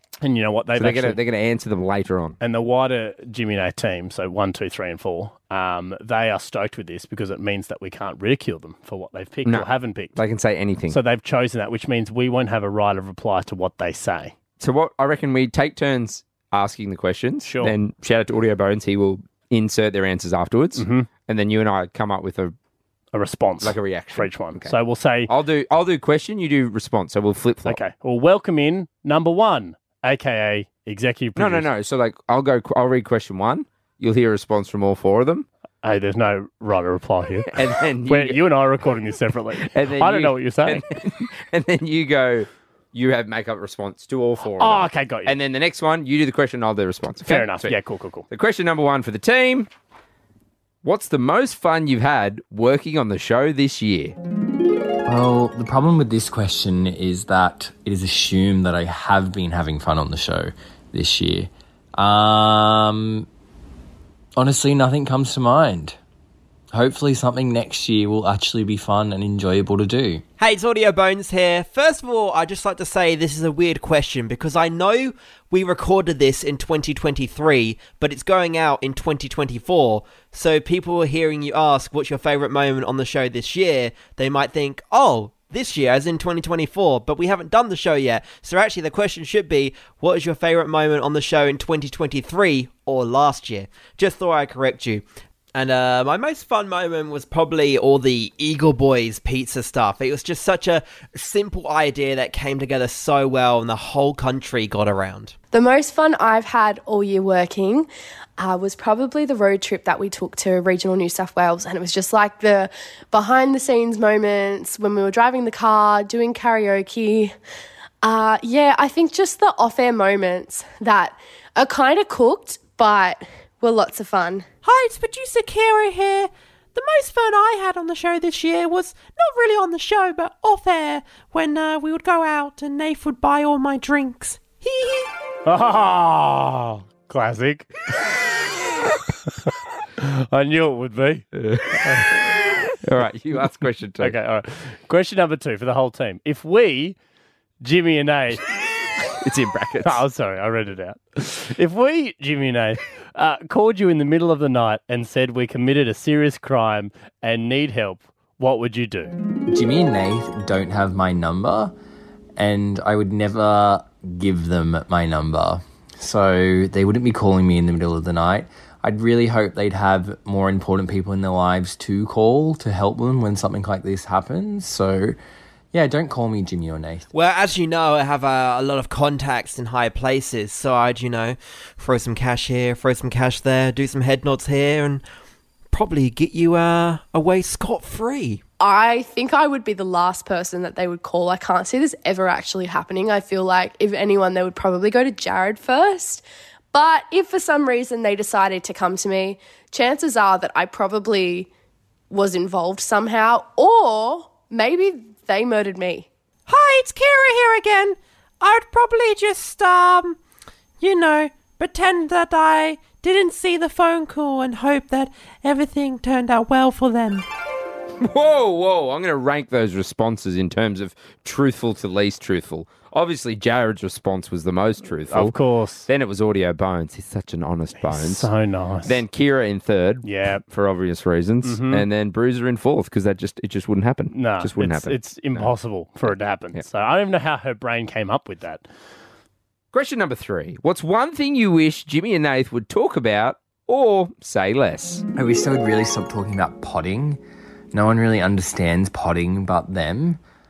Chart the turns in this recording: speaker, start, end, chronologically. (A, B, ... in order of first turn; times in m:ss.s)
0:00.2-0:01.2 A
0:00.8-0:02.4 B
0:02.4-0:10.2 A
0:09.4-0:11.0 B
0:10.9-0:14.3 A
0:14.6-0:22.5 B
0:17.4-0:17.7 A
0:20.8-0:21.1 A
0:23.1-0:25.3 A
0:23.6-0:24.8 B
0:25.3-0:27.8 B
0:27.6-0:31.7 A
0:31.4-0:35.5 B
0:35.8-0:40.8 A
0:37.5-0:38.4 B
0:39.7-0:47.8 B
0:44.4-0:45.3 A
0:47.2-0:48.2 A
0:48.3-0:49.7 B
0:50.8-0:54.2 B
0:55.0-1:03.2 C
1:04.4-1:06.0 C
1:06.7-1:10.2 C
1:10.4-1:45.3 D
1:45.5-1:57.3 E
1:58.0-2:04.4 E
2:04.6-2:15.0 F
2:15.4-2:17.7 A
2:20.0-2:21.2 A
2:21.3-2:22.2 B
2:22.8-2:24.2 B
2:24.0-2:27.0 A
2:27.6-2:28.4 A
2:29.2-2:30.0 B
2:29.8-2:39.1 A
2:39.5-2:41.7 C
2:42.4-2:55.2 C
2:55.7-2:57.1 C
2:57.1-3:05.0 D
3:05.7-3:08.4 D
3:08.6-3:21.5 E
3:22.1-3:26.1 E
3:26.5-3:30.2 F
3:30.8-3:37.2 F
3:38.0-3:45.4 B
3:45.1-3:45.9 A
3:45.9-3:48.3 B
3:47.8-3:49.0 A
3:48.8-3:55.5 B
3:50.0-3:50.4 A
3:51.4-3:51.8 A
3:54.1-3:58.6 A
3:59.7-4:05.0 B
4:05.1-4:07.2 C
4:07.7-4:10.2 C